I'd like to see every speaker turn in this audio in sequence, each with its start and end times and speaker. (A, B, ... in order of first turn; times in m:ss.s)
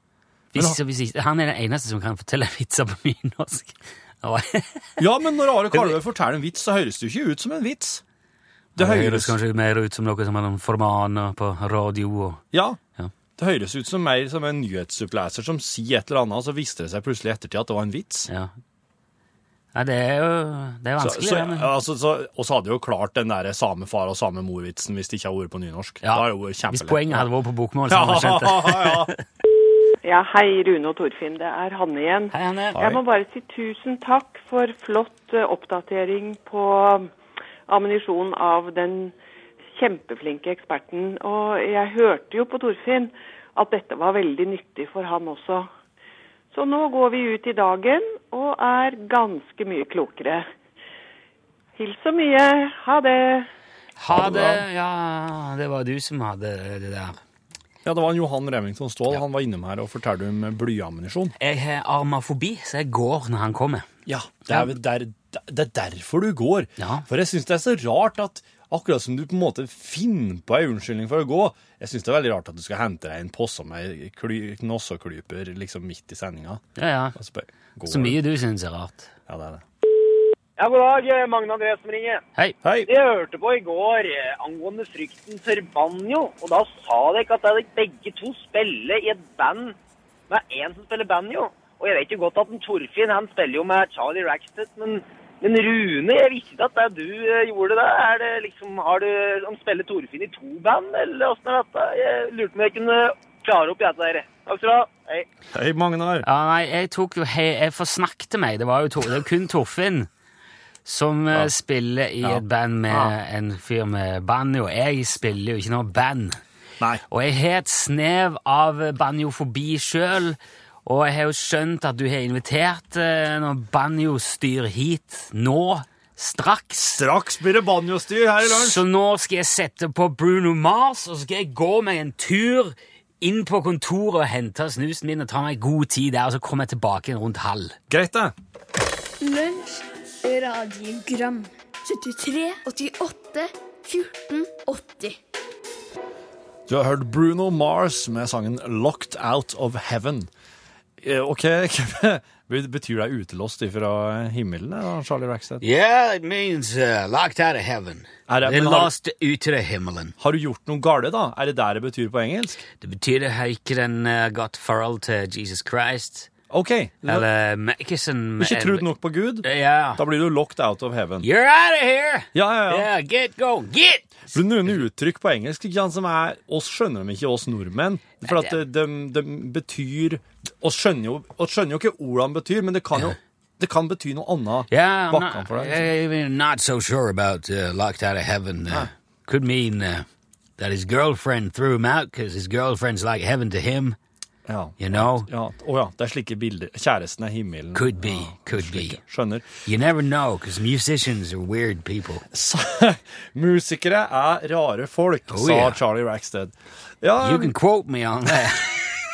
0:00.5-0:05.0 A
0:05.0-0:08.0 B
0:08.8-0:12.4 A
0:08.8-0:09.4 B
0:12.5-0:12.8 B
0:13.4-0:18.3 B
0:19.7-0:21.7 A
0:21.0-0:27.3 B
0:26.0-0:29.2 A
0:27.9-0:29.1 B
0:30.0-0:37.1 C
0:32.3-0:32.8 A
0:32.7-0:33.0 B
0:37.7-0:39.2 C
0:39.8-0:45.7 C
0:46.5-0:50.5 C
0:51.8-0:53.5 C
0:54.0-0:57.2 A
0:54.1-0:54.6 B
0:57.8-1:01.4 B
1:01.4-1:03.9 A
1:04.1-1:16.6 B
1:04.5-1:04.8 A
1:06.8-1:07.1 A
1:16.8-1:17.2 A
1:17.2-1:18.2 B
1:17.9-1:19.1 A
1:19.3-1:19.6 B
1:20.6-1:22.2 D
1:22.6-1:22.9 B
1:22.9-1:29.8 D
1:30.3-1:45.3 D
1:45.5-1:46.3 B
1:46.2-1:50.1 A
1:50.8-1:56.4 A
1:52.2-1:53.1 B
1:57.1-2:07.0 A
2:07.0-2:08.8 B
2:08.4-2:17.8 A
2:17.9-2:18.3 B
2:19.2-2:25.2 E
2:26.7-2:30.3 B
2:31.0-2:35.6 B
2:35.6-2:40.2 A
2:38.3-2:38.9 B
2:40.2-2:42.6 B
2:42.8-2:46.3 A
2:46.5-2:47.3 B
2:47.0-2:48.9 A
2:48.4-2:51.3 B
2:49.4-2:50.0 A
2:51.2-2:54.4 A
2:52.3-2:52.9 B
2:54.3-3:05.9 B
2:58.2-2:58.6 A
3:04.7-3:10.1 A
3:10.6-3:14.0 A
3:14.5-3:19.5 B
3:14.8-3:15.3 A
3:17.7-3:19.0 A
3:19.6-3:22.3 A
3:22.3-3:27.6 B
3:25.3-3:25.8 A
3:27.2-3:28.7 A